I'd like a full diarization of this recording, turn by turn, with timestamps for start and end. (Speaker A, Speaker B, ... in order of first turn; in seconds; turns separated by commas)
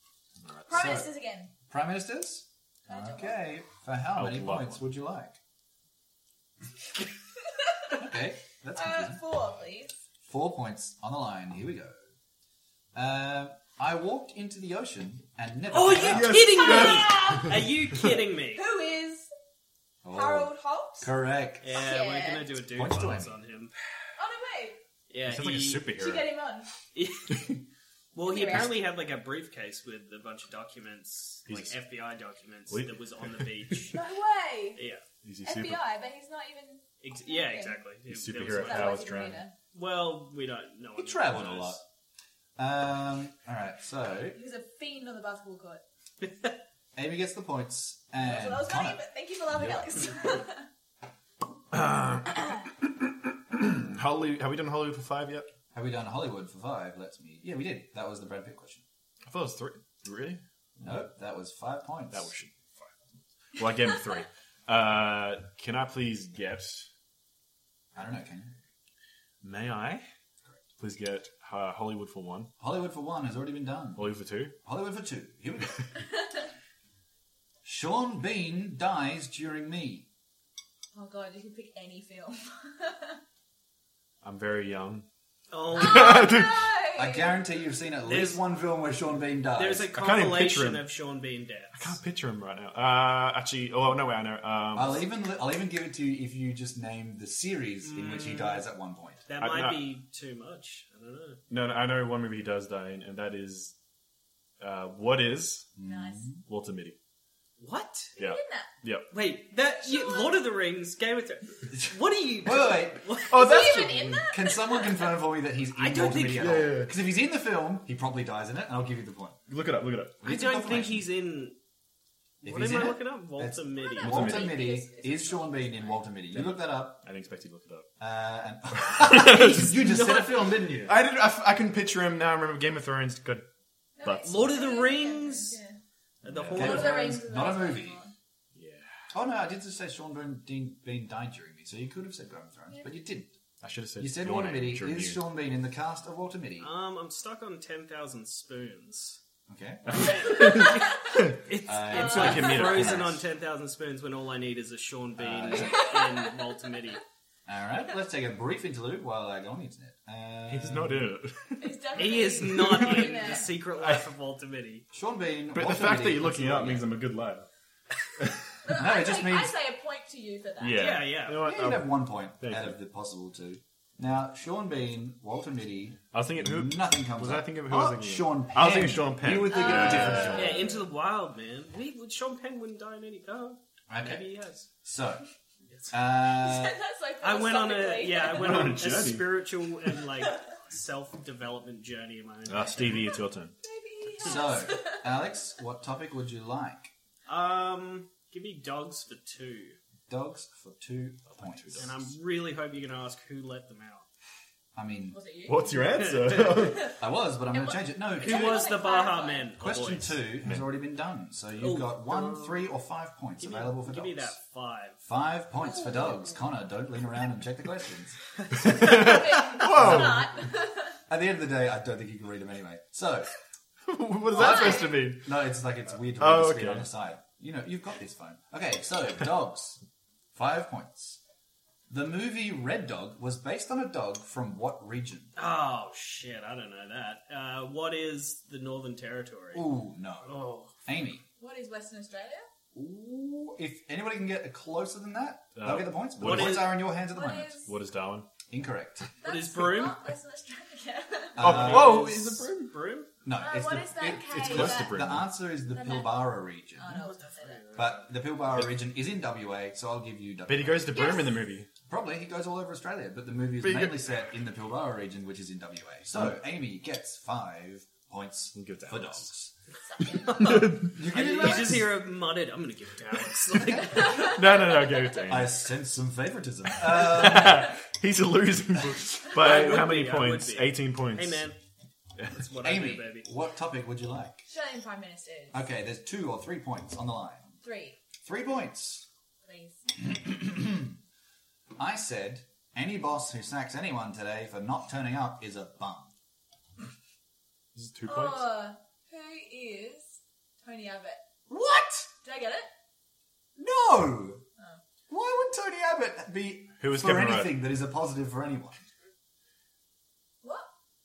Speaker A: 0.4-1.0, Speaker B: 0.7-1.5, Speaker C: 0.7-1.1, Speaker C: 1.7-5.4, Speaker B: 2.9-3.4, Speaker A: 4.2-4.8, Speaker C: 8.0-9.3, Speaker B: 8.7-9.9, Speaker C: 10.2-12.0, Speaker C: 12.9-16.5, Speaker D: 15.7-18.6, Speaker A: 15.9-17.6, Speaker B: 16.3-17.7, Speaker B: 18.6-19.3, Speaker C: 20.0-21.8, Speaker B: 20.1-21.1, Speaker D: 21.6-23.7, Speaker B: 21.7-22.5, Speaker C: 22.6-23.4, Speaker B: 24.2-24.8, Speaker D: 25.1-25.9, Speaker A: 25.2-26.4, Speaker B: 25.9-26.7, Speaker D: 26.9-27.5, Speaker D: 28.1-34.0, Speaker B: 28.2-28.8, Speaker A: 31.5-31.8, Speaker A: 32.7-33.7, Speaker B: 33.9-34.8, Speaker D: 34.8-35.0, Speaker A: 35.2-35.9, Speaker B: 35.4-37.8, Speaker D: 37.0-39.1, Speaker A: 38.1-39.4, Speaker B: 38.5-39.5, Speaker D: 39.7-41.8, Speaker C: 41.0-41.8, Speaker C: 42.6-44.4, Speaker B: 44.3-45.8, Speaker D: 46.2-46.5, Speaker C: 47.0-49.0, Speaker B: 48.2-50.7, Speaker A: 51.7-55.5, Speaker C: 55.7-58.8, Speaker A: 59.3-60.4, Speaker C: 60.8-62.3, Speaker A: 62.1-62.9, Speaker A: 63.6-66.9, Speaker C: 68.0-68.5, Speaker A: 69.4-70.0, Speaker A: 70.8-72.5, Speaker C: 72.6-75.8, Speaker A: 74.0-74.5, Speaker C: 77.6-80.1, Speaker B: 80.9-83.2, Speaker A: 84.2-85.1, Speaker D: 85.5-86.4, Speaker A: 85.7-86.7, Speaker B: 85.8-87.4, Speaker C: 87.0-90.0, Speaker D: 88.0-88.4, Speaker D: 89.6-92.0, Speaker A: 89.9-90.8, Speaker A: 91.8-95.1, Speaker C: 94.7-99.3, Speaker D: 97.8-98.7, Speaker D: 99.3-101.4, Speaker A: 99.4-99.8, Speaker A: 101.5-103.8, Speaker A: 104.6-105.7, Speaker C: 105.8-106.4, Speaker B: 105.8-106.3, Speaker A: 106.5-107.0, Speaker D: 107.6-108.2, Speaker B: 108.2-108.7, Speaker A: 108.2-109.1, Speaker D: 109.1-113.5, Speaker B: 109.8-110.5, Speaker C: 112.4-119.4, Speaker A: 113.3-114.2, Speaker B: 113.3-115.2, Speaker D: 115.7-116.6, Speaker A: 116.3-117.0, Speaker A: 119.5-120.2, Speaker C: 120.2-121.1, Speaker D: 120.2-121.6, Speaker D: 122.4-124.2, Speaker C: 122.4-127.0, Speaker B: 123.8-126.0, Speaker A: 124.0-124.7, Speaker A: 126.3-127.9, Speaker C: 128.0-131.0, Speaker A: 128.8-129.7, Speaker D: 129.2-130.5, Speaker A: 130.9-133.5, Speaker B: 134.0-135.8, Speaker A: 134.0-134.4, Speaker D: 134.3-135.6, Speaker A: 136.2-137.1, Speaker D: 136.3-137.1, Speaker C: 136.4-138.0, Speaker B: 136.6-138.1, Speaker A: 138.6-138.9, Speaker C: 139.1-143.3, Speaker A: 143.6-145.2, Speaker C: 144.0-146.7, Speaker D: 146.6-149.2, Speaker C: 149.5-150.5, Speaker A: 149.9-151.3, Speaker D: 149.9-157.0, Speaker C: 151.6-153.2, Speaker A: 151.9-153.2, Speaker B: 152.0-152.6, Speaker C: 155.2-156.0, Speaker B: 155.7-156.3, Speaker C: 157.5-161.1, Speaker A: 160.5-164.1, Speaker B: 161.6-163.5, Speaker D: 162.0-164.8, Speaker C: 164.9-166.9, Speaker A: 165.5-167.5, Speaker B: 168.6-171.0, Speaker C: 168.7-169.6, Speaker A: 170.6-172.8, Speaker D: 170.7-171.4, Speaker C: 171.3-180.7, Speaker A: 176.1-180.7, Speaker B: 179.4-180.6, Speaker D: 180.3-184.7, Speaker C: 183.9-184.3, Speaker C: 184.8-185.2, Speaker C: 185.9-186.8, Speaker B: 186.3-188.8, Speaker D: 187.2-193.1, Speaker A: 188.2-189.4, Speaker A: 192.5-193.6, Speaker B: 192.9-195.3, Speaker C: 194.2-196.9, Speaker D: 197.3-199.8, Speaker C: 200.1-201.9, Speaker A: 201.3-202.1, Speaker D: 201.8-204.1, Speaker C: 204.8-205.2, Speaker B: 205.1-205.9, Speaker A: 205.5-207.0, Speaker D: 206.0-206.7, Speaker C: 206.9-208.7, Speaker B: 207.5-209.6, Speaker D: 208.2-210.3, Speaker C: 209.6-214.4, Speaker A: 210.4-210.7, Speaker D: 211.6-212.7, Speaker D: 213.4-215.0, Speaker C: 215.0-218.2, Speaker B: 215.6-216.1, Speaker A: 218.6-220.3, Speaker B: 218.8-221.0, Speaker C: 219.6-220.3, Speaker C: 221.1-223.3, Speaker A: 223.9-225.3, Speaker C: 224.3-229.8, Speaker B: 224.3-225.0, Speaker A: 226.2-226.9, Speaker C: 230.3-231.2, Speaker C: 231.9-235.3, Speaker D: 235.4-239.7, Speaker C: 239.5-241.2, Speaker D: 240.2-240.7, Speaker B: 241.4-242.5, Speaker C: 242.7-247.6, Speaker A: 245.6-246.8, Speaker D: 246.2-246.8, Speaker B: 247.1-247.7, Speaker A: 247.6-248.3, Speaker C: 248.5-249.1, Speaker B: 249.2-251.4, Speaker D: 249.2-250.0, Speaker C: 251.4-252.3, Speaker A: 251.4-252.7, Speaker D: 251.4-253.1, Speaker C: 253.2-257.1, Speaker B: 253.4-255.0, Speaker A: 254.1-255.3, Speaker B: 255.7-257.6, Speaker D: 256.9-258.1, Speaker C: 257.7-261.1, Speaker A: 260.5-261.7, Speaker B: 260.9-261.5, Speaker C: 261.9-269.5, Speaker A: 263.6-264.1, Speaker A: 268.6-269.3, Speaker B: 269.9-270.6, Speaker D: 270.2-274.7, Speaker A: 270.4-270.9, Speaker C: 270.6-271.9, Speaker A: 274.0-275.6, Speaker C: 275.3-277.7, Speaker A: 276.8-281.5, Speaker D: 279.3-281.6, Speaker D: 282.3-283.3, Speaker C: 282.6-284.5, Speaker B: 284.5-285.6, Speaker C: 285.5-287.5, Speaker B: 287.6-288.0, Speaker C: 288.2-289.1, Speaker B: 289.4-289.9, Speaker C: 290.0-290.9, Speaker C: 291.8-296.1, Speaker A: 297.8-298.5, Speaker B: 298.1-301.2, Speaker C: 301.5-302.1, Speaker B: 302.2-302.7, Speaker C: 303.6-304.4, Speaker C: 305.1-308.8, Speaker A: 306.8-307.6, Speaker B: 310.4-310.7